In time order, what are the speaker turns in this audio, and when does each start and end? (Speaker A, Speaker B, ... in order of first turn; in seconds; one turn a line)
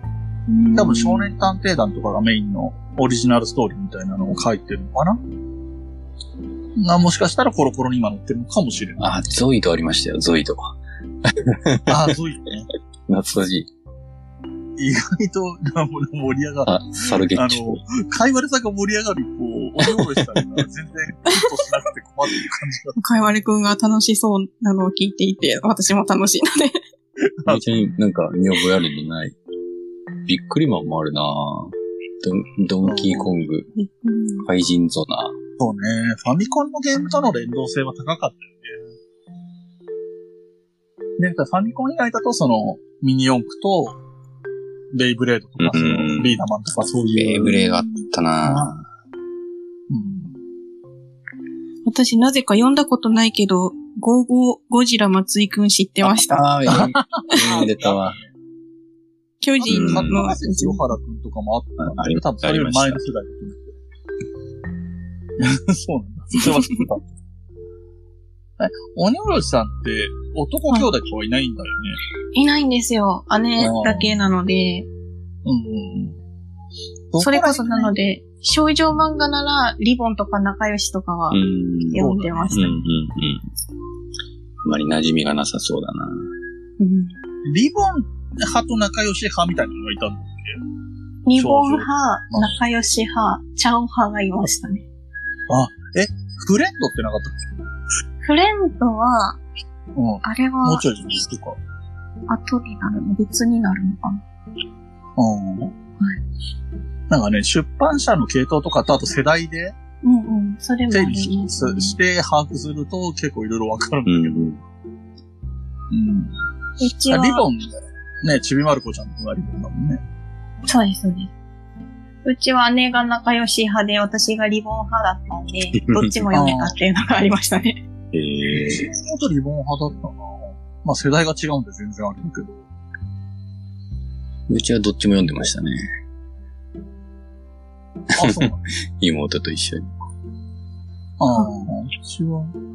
Speaker A: 0.5-1.3
Speaker B: 0.7-5.2
Speaker B: 6.8-9.1
Speaker C: 9.0-12.1
Speaker B: 11.9-12.7
Speaker C: 13.1-13.7
Speaker B: 14.8-23.0
Speaker C: 16.6-17.8
Speaker A: 23.0-26.8
Speaker B: 27.3-27.6
Speaker C: 27.5-29.4
Speaker C: 30.2-33.7
Speaker B: 32.8-33.3
Speaker A: 33.8-34.4
Speaker C: 34.4-35.3
Speaker B: 35.6-38.8
Speaker B: 41.2-44.0
Speaker B: 44.9-47.6
Speaker C: 45.6-46.4
Speaker C: 47.1-48.8
Speaker A: 47.5-47.9
Speaker B: 48.4-48.7
Speaker B: 49.9-50.4
Speaker A: 51.9-57.6
Speaker C: 56.0-58.2
Speaker B: 56.7-58.2
Speaker A: 59.4-60.8
Speaker B: 59.6-63.8
Speaker C: 59.7-60.3
Speaker C: 61.8-63.0
Speaker B: 65.4-67.0
Speaker B: 68.6-72.0
Speaker A: 72.3-74.9
Speaker B: 73.6-74.1
Speaker B: 75.4-76.2
Speaker B: 77.1-77.9
Speaker A: 77.2-81.4
Speaker C: 81.3-83.4
Speaker A: 81.9-82.7
Speaker B: 82.0-82.8
Speaker C: 84.6-86.1
Speaker A: 86.8-87.1
Speaker B: 87.5-90.6
Speaker A: 91.2-94.8
Speaker B: 91.4-92.5
Speaker B: 95.5-97.3
Speaker A: 98.2-99.4
Speaker B: 100.0-101.6
Speaker A: 100.2-101.1
Speaker A: 102.3-104.2
Speaker B: 105.2-105.7
Speaker B: 107.1-109.7
Speaker A: 110.0-112.0
Speaker B: 110.9-114.5
Speaker C: 114.0-114.6
Speaker B: 115.9-116.3
Speaker A: 116.8-117.4
Speaker B: 117.1-117.7
Speaker B: 118.2-120.0
Speaker A: 120.7-121.3
Speaker A: 122.2-127.8
Speaker B: 126.3-126.8
Speaker C: 128.1-128.8
Speaker B: 128.5-132.6
Speaker C: 134.5-135.8
Speaker B: 138.1-138.6
Speaker C: 138.1-139.9
Speaker B: 141.2-142.5